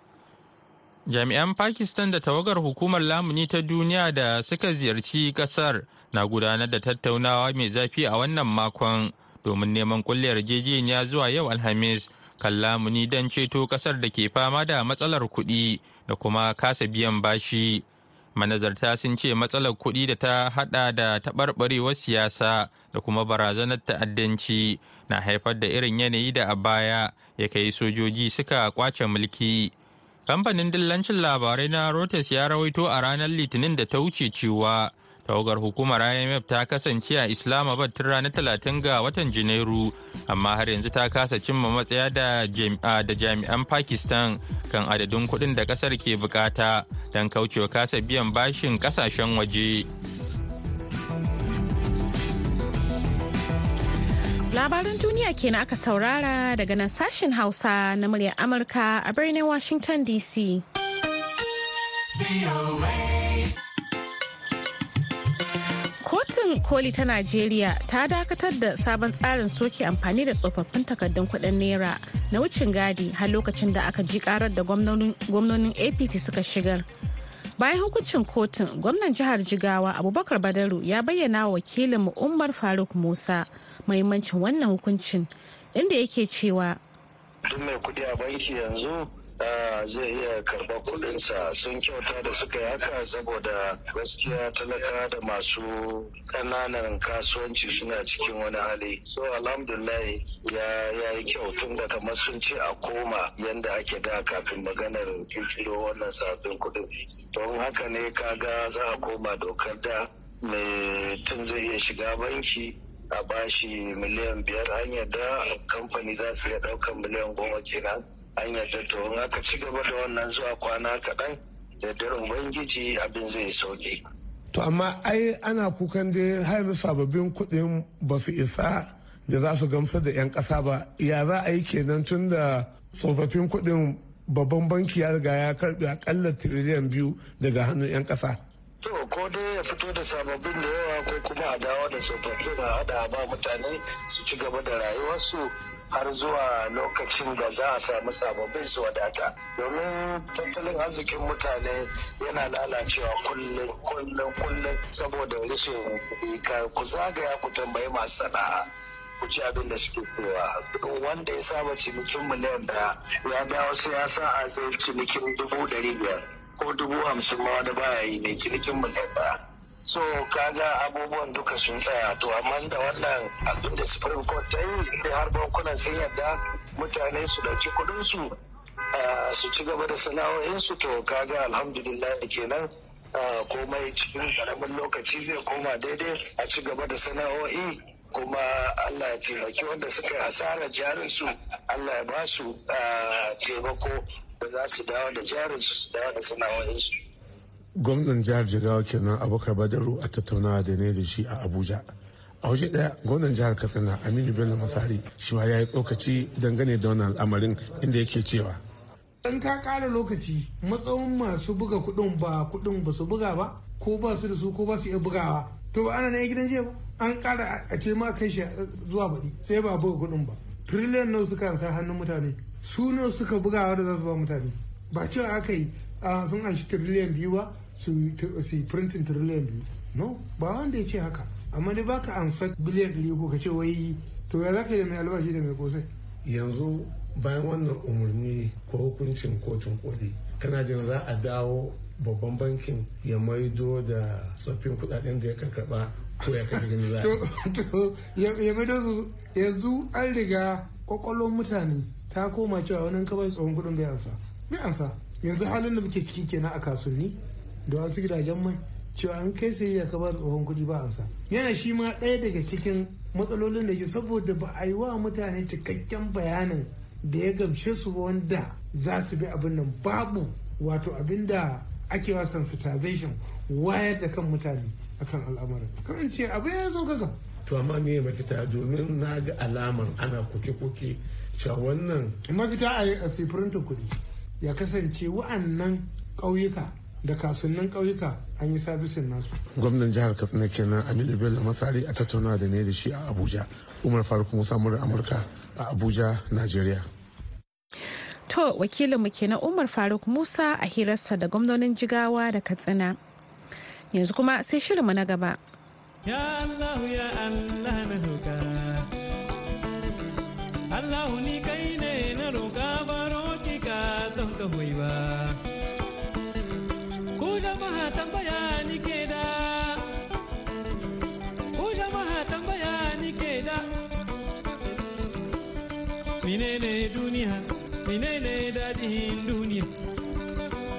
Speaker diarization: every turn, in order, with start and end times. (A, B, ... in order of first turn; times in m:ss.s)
0:01.1-0:17.8 A
0:18.4-0:29.7 A
0:30.3-0:49.8 A
0:54.5-1:00.6 B
1:06.0-1:16.8 B
1:17.6-1:26.8 B
1:27.5-2:04.0 C
2:04.5-2:18.4 D
2:18.8-2:38.6 C
2:39.2-2:49.3 C
2:49.9-2:58.3 C
2:58.9-3:17.0 C
3:17.8-3:21.8 D
3:22.4-3:28.6 D
3:29.2-3:55.9 E
3:56.2-4:07.2 D
4:06.5-4:37.2 E
4:37.4-4:42.2 D
4:42.3-4:49.3 E
4:49.6-4:56.8 D
4:58.3-5:03.0 B
5:03.9-5:05.4 B
5:06.1-5:08.8 F
5:10.7-5:15.4 F
5:17.2-5:19.8 F
5:21.6-5:23.6 F
5:26.2-5:29.7 F